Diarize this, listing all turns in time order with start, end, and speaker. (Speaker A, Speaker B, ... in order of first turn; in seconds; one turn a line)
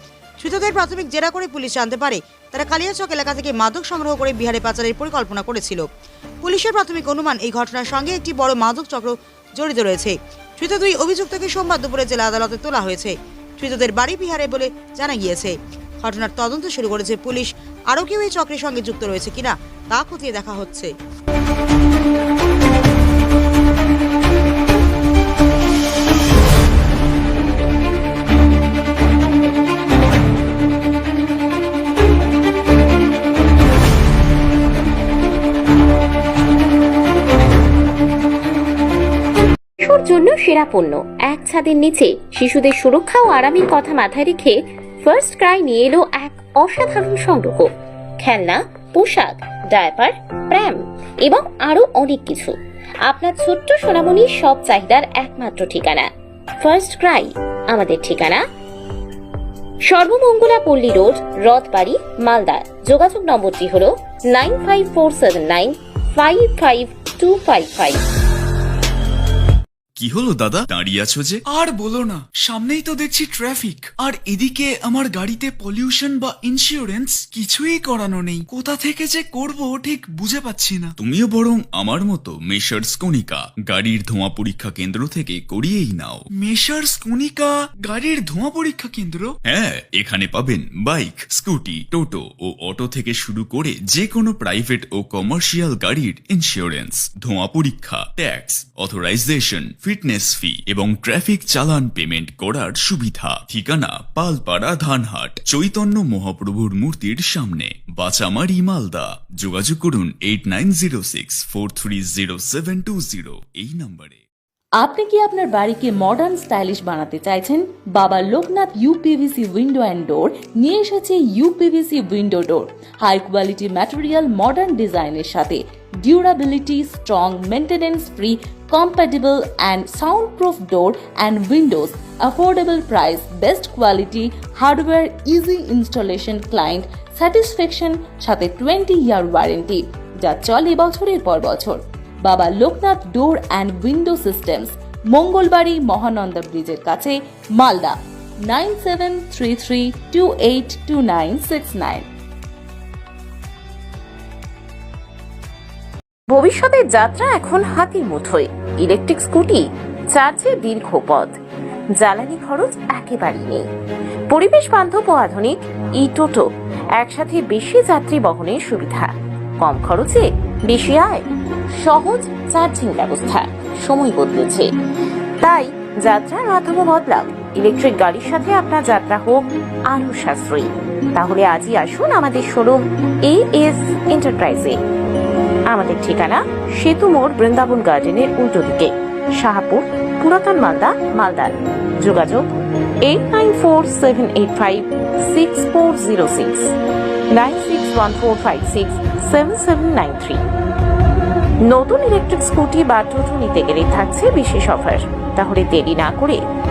Speaker A: 0.4-5.9
Speaker A: 6.4-20.9
Speaker B: 39.8-47.7
Speaker B: 48.2-56.1
Speaker B: 56.6-58.5
Speaker B: 59.9-68.0
Speaker C: 70.0-71.4
Speaker D: 71.5-80.9
Speaker C: 81.0-86.3
Speaker D: 86.4-89.4
Speaker C: 89.4-114.2
Speaker E: 114.8-152.1
Speaker B: 156.3-161.4
Speaker B: 162.0-163.7
Speaker B: 164.3-174.7
Speaker B: 175.4-184.8
Speaker B: 185.7-192.5
Speaker B: 193.0-196.7
Speaker B: 197.3-200.4
Speaker B: 201.7-206.4